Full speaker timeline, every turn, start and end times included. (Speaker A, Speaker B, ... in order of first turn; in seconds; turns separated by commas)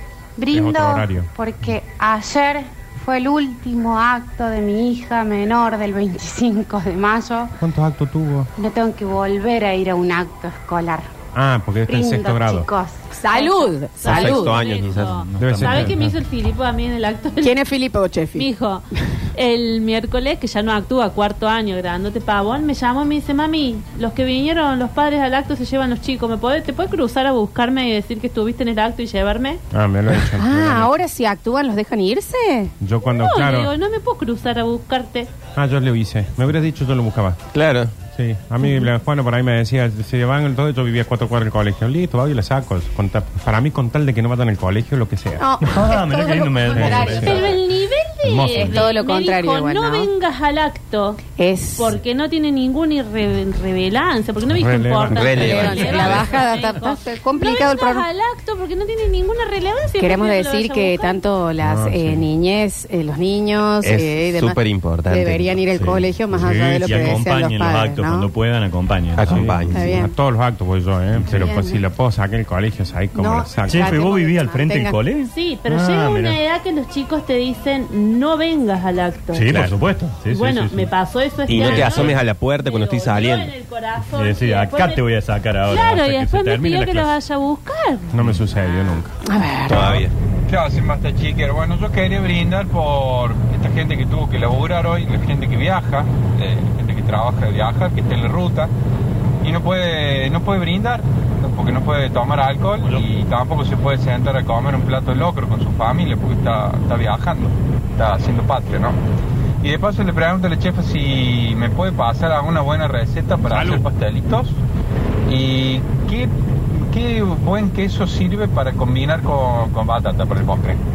Speaker A: 0.4-7.5, Speaker B: 0.5-1.3, Speaker B: 7.6-8.5, Speaker A: 8.6-11.1, Speaker B: 11.3-12.7, Speaker A: 11.9-13.1, Speaker C: 13.1-14.5, Speaker D: 13.3-17.6, Speaker E: 14.0-15.2, Speaker F: 15.3-16.0, Speaker B: 15.4-16.1, Speaker C: 17.4-18.5, Speaker D: 18.4-29.6, Speaker B: 29.7-30.9, Speaker C: 30.4-32.7, Speaker B: 32.8-33.7, Speaker D: 33.1-35.3, Speaker B: 35.5-37.4, Speaker E: 37.5-37.9, Speaker B: 38.1-45.4, Speaker C: 45.4-47.6, Speaker F: 45.7-47.6, Speaker B: 46.8-47.3, Speaker D: 47.1-51.2, Speaker B: 48.2-48.9, Speaker C: 48.5-50.1, Speaker C: 51.4-52.0, Speaker D: 51.8-61.2, Speaker B: 54.5-55.7, Speaker E: 55.1-56.4, Speaker C: 55.3-58.0, Speaker C: 60.0-68.3, Speaker B: 61.6-62.3, Speaker E: 63.8-65.6, Speaker F: 65.8-69.5, Speaker B: 66.4-67.0, Speaker E: 69.2-70.0, Speaker B: 69.3-74.0, Speaker C: 69.7-70.1, Speaker C: 71.3-71.8, Speaker C: 73.2-75.0, Speaker F: 73.7-76.4, Speaker D: 75.2-79.6, Speaker F: 79.3-80.9, Speaker E: 79.5-79.7, Speaker D: 80.3-85.0, Speaker F: 81.5-82.2, Speaker E: 81.5-83.5, Speaker F: 84.1-87.1, Speaker D: 85.7-88.1, Speaker B: 88.1-89.1, Speaker C: 89.2-89.9, Speaker E: 89.7-90.1, Speaker G: 89.7-98.7, Speaker G: 99.4-109.0, Speaker F: 102.8-103.1, Speaker G: 109.6-114.5, Speaker B: 113.5-113.8, Speaker G: 115.3-120.8